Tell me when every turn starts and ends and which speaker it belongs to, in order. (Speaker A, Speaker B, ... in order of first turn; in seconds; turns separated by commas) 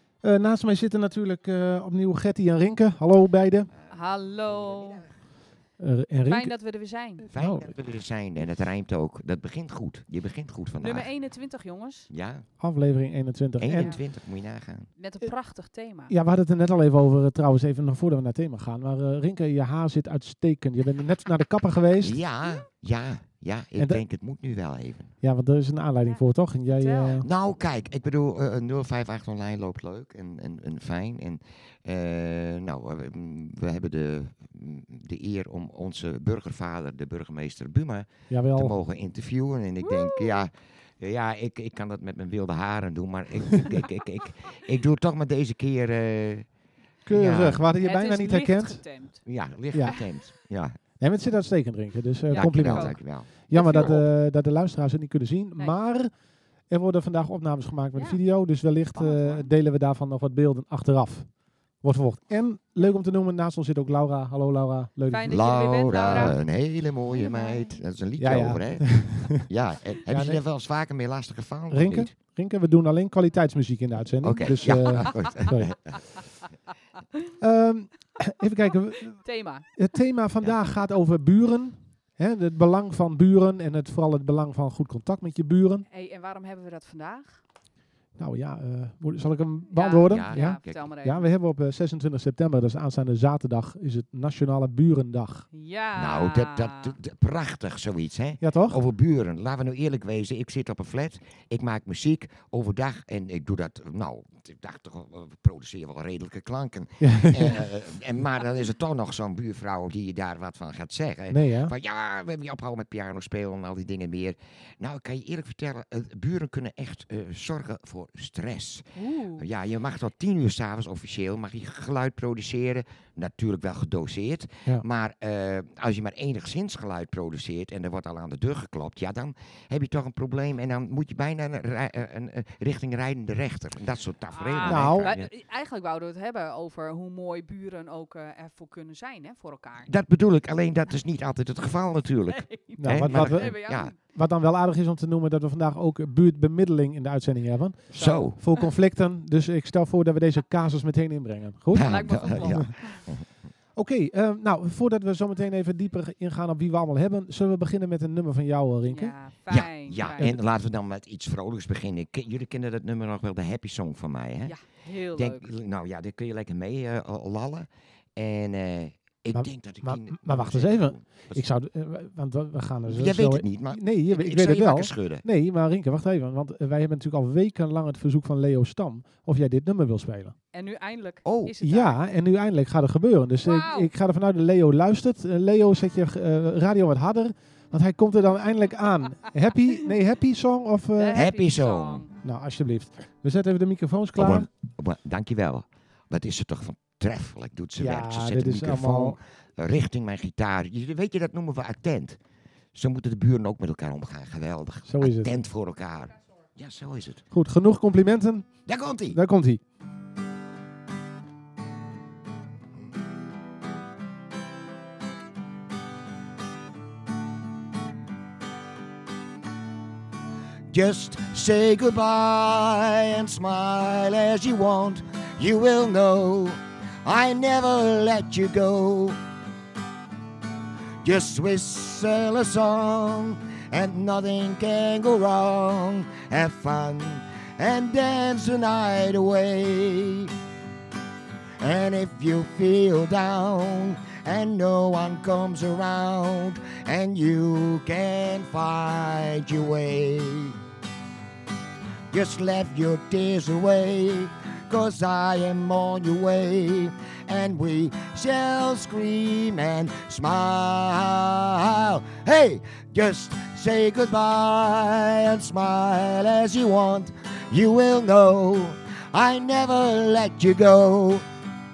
Speaker A: 0.2-3.7, Speaker B: 3.9-5.1, Speaker A: 5.8-6.6, Speaker B: 6.3-7.3, Speaker A: 7.2-7.8, Speaker C: 7.3-11.1, Speaker B: 10.8-12.1, Speaker C: 12.1-12.5, Speaker A: 12.6-14.0, Speaker C: 13.6-14.9, Speaker B: 14.9-16.1, Speaker A: 16.1-22.2, Speaker C: 22.0-25.1, Speaker A: 23.8-24.0, Speaker A: 25.2-27.3, Speaker B: 26.1-27.3, Speaker C: 27.2-46.5, Speaker A: 38.3-38.8, Speaker B: 39.8-40.4, Speaker A: 47.0-48.9, Speaker C: 47.1-47.6, Speaker B: 47.8-49.2, Speaker C: 49.3-50.8, Speaker A: 49.7-50.0, Speaker A: 51.0-56.1, Speaker B: 52.3-53.0, Speaker C: 52.4-54.0, Speaker B: 53.5-54.0, Speaker A: 56.7-66.4, Speaker B: 58.0-58.2, Speaker B: 59.0-59.5, Speaker B: 65.1-66.5, Speaker C: 65.3-72.1, Speaker B: 67.1-67.8, Speaker A: 68.2-69.3, Speaker A: 70.1-70.4, Speaker A: 71.7-75.8, Speaker C: 74.2-76.0, Speaker B: 74.4-75.2, Speaker A: 77.4-85.9, Speaker B: 79.2-79.7, Speaker B: 85.9-87.4, Speaker A: 88.2-95.5, Speaker B: 89.7-91.2, Speaker C: 90.1-90.9, Speaker B: 95.5-97.0, Speaker C: 96.0-135.3, Speaker A: 98.4-98.8, Speaker A: 107.0-107.7, Speaker A: 111.3-111.8, Speaker B: 119.0-119.5, Speaker B: 134.3-139.9, Speaker A: 134.6-135.1, Speaker C: 139.8-143.9, Speaker B: 142.3-144.0, Speaker A: 142.8-152.9, Speaker B: 147.9-148.6, Speaker C: 147.9-148.4, Speaker C: 151.7-153.3, Speaker B: 151.8-153.1, Speaker A: 153.8-159.2, Speaker B: 158.9-160.3, Speaker C: 159.5-164.6, Speaker A: 160.2-160.4, Speaker B: 164.4-165.5, Speaker C: 165.1-171.4, Speaker A: 169.3-180.4, Speaker C: 172.9-175.2, Speaker B: 180.5-182.0, Speaker C: 181.2-181.6, Speaker A: 181.6-191.3, Speaker B: 183.4-183.9, Speaker B: 191.0-192.1, Speaker C: 191.1-192.1, Speaker A: 192.2-194.5, Speaker C: 194.2-202.2, Speaker A: 197.8-199.2, Speaker C: 202.7-207.2, Speaker A: 204.8-205.4, Speaker A: 207.3-209.6, Speaker C: 208.7-209.2, Speaker C: 220.7-229.2, Speaker C: 231.0-240.3, Speaker C: 241.6-250.6, Speaker C: 252.1-271.2